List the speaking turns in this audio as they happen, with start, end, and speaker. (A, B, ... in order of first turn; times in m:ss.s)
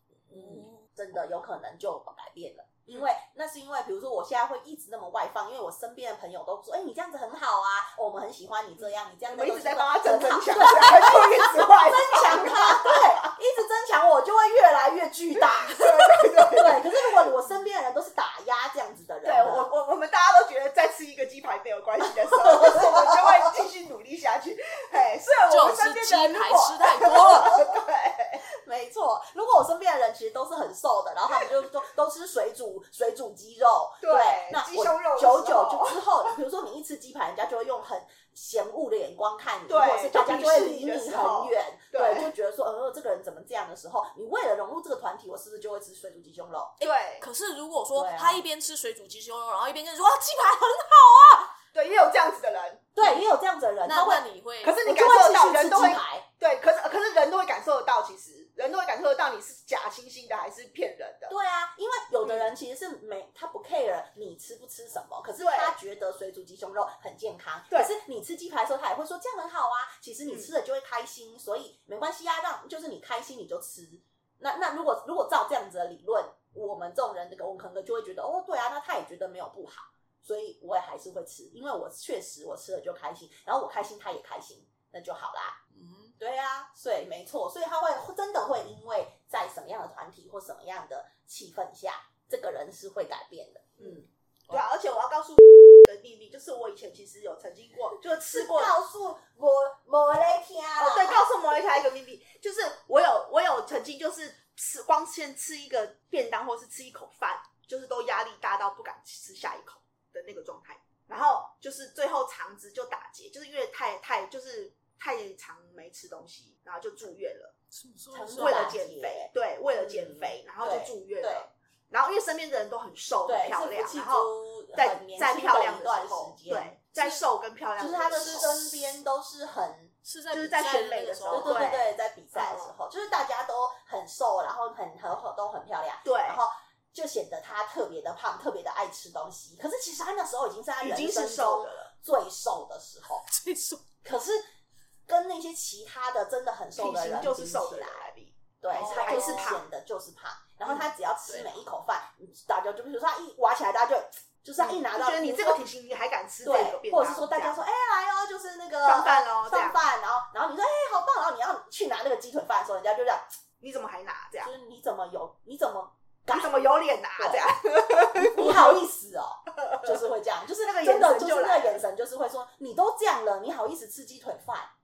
0:00.3-0:00.9 A
0:00.3-0:19.7 B
0:09.3-0:13.3 C
0:15.4-0:17.2 C
0:19.2-0:28.4 C
0:22.5-0:23.3 B
0:25.5-0:27.6 A
0:27.4-0:27.7 B
0:28.5-0:46.7 B
0:34.0-0:36.3 C
0:39.7-0:42.3 C
0:46.8-0:51.5 A
0:46.8-0:47.2 C
0:47.9-0:48.4 B
0:51.7-0:52.9 C
0:52.9-0:54.2 B
0:53.8-0:54.8 A
0:54.6-1:01.3 C
0:54.8-0:56.2 B
1:01.3-1:25.6 B
1:02.2-1:02.5 C
1:05.4-1:05.8 C
1:25.7-1:26.2 A
1:26.2-1:34.1 B
1:33.8-1:38.7 C
1:38.0-1:41.3 B
1:40.8-1:57.5 C
1:57.7-1:58.8 A
1:58.1-2:01.5 B
1:58.4-2:08.5 C
2:03.2-2:06.7 B
2:07.0-2:07.2 A
2:07.8-2:09.9 B
2:08.2-2:08.7 A
2:10.0-2:11.7 A
2:10.3-2:12.7 C
2:11.3-2:23.2 B
2:16.0-2:16.4 C
2:20.8-2:21.9 C
2:23.2-2:23.8 A
2:24.0-2:24.4 B
2:25.1-2:28.1 B
2:26.8-2:29.6 C
2:28.6-2:35.6 B
2:28.7-2:29.5 A
2:31.3-2:31.6 A
2:34.6-2:37.6 C
2:36.4-2:43.4 B
2:38.8-2:39.8 C
2:43.6-2:44.5 C
2:44.4-2:46.6 B
2:46.3-2:48.8 C
2:47.2-2:47.5 B
2:48.1-2:54.7 B
2:50.6-2:51.8 C